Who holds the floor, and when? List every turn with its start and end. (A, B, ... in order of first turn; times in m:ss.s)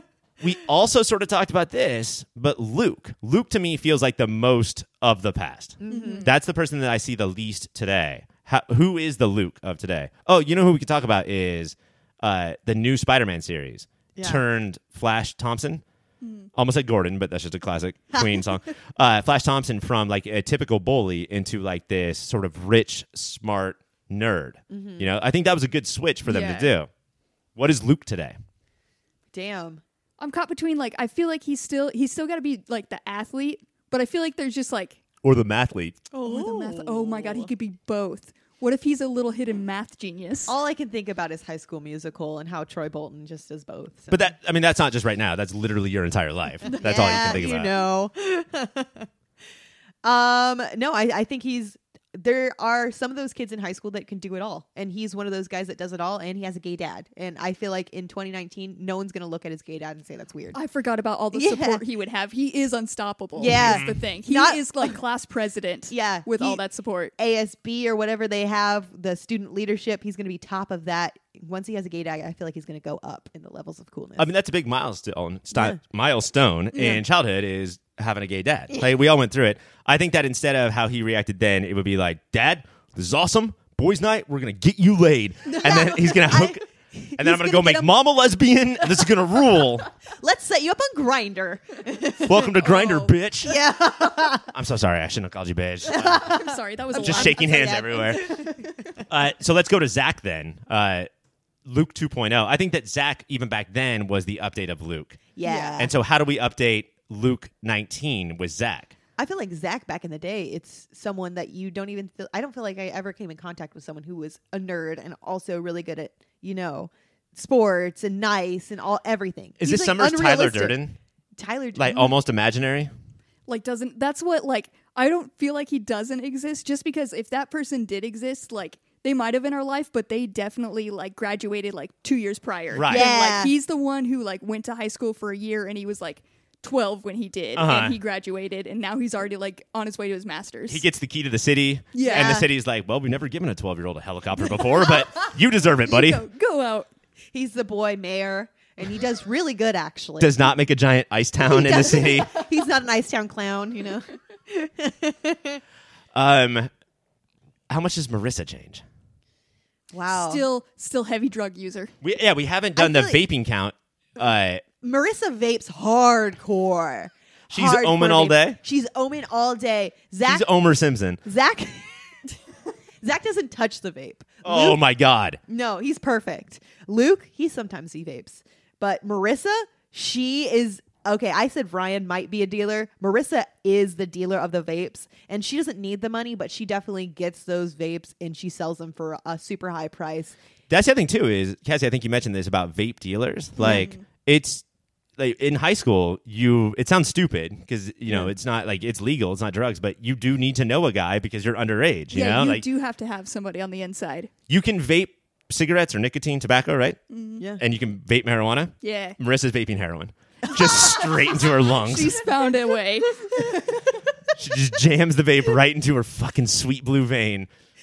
0:00.4-0:15.8 A
0:05.8-0:06.3 B
0:05.9-0:06.3 C
0:14.1-0:14.4 B
0:16.2-0:16.5 C
0:16.5-0:26.9 A
0:24.7-0:25.1 B
0:26.2-0:26.7 C
0:27.6-0:28.4 A
0:29.3-0:29.8 B
0:30.2-0:35.0 C
0:35.2-0:36.0 A
0:36.1-0:37.5 B
0:36.2-0:40.5 C
0:40.5-0:44.4 B
0:44.1-0:47.8 A
0:46.7-0:47.4 C
0:46.7-0:49.1 B
0:50.0-1:00.6 B
1:00.5-1:07.1 C
1:01.3-1:01.8 B
1:03.4-1:04.9 B
1:03.5-1:03.9 A
1:05.9-1:06.6 B
1:07.2-1:14.3 B
1:14.2-1:26.6 A
1:16.7-1:17.0 C
1:25.5-1:28.0 B
1:27.2-1:29.9 A
1:30.2-1:32.5 B
1:32.2-1:33.6 A
1:32.6-1:33.1 C
1:33.4-1:34.5 B
1:34.5-1:36.4 A
1:35.9-1:39.0 B
1:36.2-1:38.6 C
1:37.0-1:38.2 A
1:39.1-1:41.1 A
1:41.6-1:48.9 A
1:45.4-1:45.9 B
1:45.4-1:45.8 C
1:49.2-2:00.8 B
1:59.6-2:01.0 A
2:01.4-2:02.1 B
2:01.8-2:02.9 A
2:03.5-2:20.8 C
2:12.7-2:13.1 A
2:12.8-2:13.5 B
2:17.5-2:18.0 A
2:20.7-2:26.2 A
2:21.9-2:22.4 C
2:22.0-2:22.5 B
2:25.2-2:26.9 C
2:27.3-2:30.4 B
2:30.2-2:32.3 A
2:31.4-2:35.6 B
2:36.1-2:36.7 A
2:37.7-2:38.8 A
2:39.9-2:40.4 B
2:40.1-2:41.9 C
2:42.0-2:44.6 A
2:42.8-2:43.2 B
2:44.8-2:50.5 B
2:47.5-2:48.6 A
2:50.2-2:51.2 A
2:51.2-2:52.0 B
2:53.0-2:54.8 B
2:54.4-2:55.4 A
2:55.5-3:10.4 B
3:10.7-3:14.6 A
3:13.6-3:13.9 B
3:13.6-3:14.0 C
3:15.2-3:22.6 A
3:22.1-3:24.3 C
3:24.5-3:27.0 A
3:27.1-3:27.4 C
3:27.6-3:32.2 A
3:28.8-3:29.2 C
3:30.5-3:31.1 B
3:31.7-3:33.6 C
3:33.1-3:34.0 B
3:34.4-3:37.5 A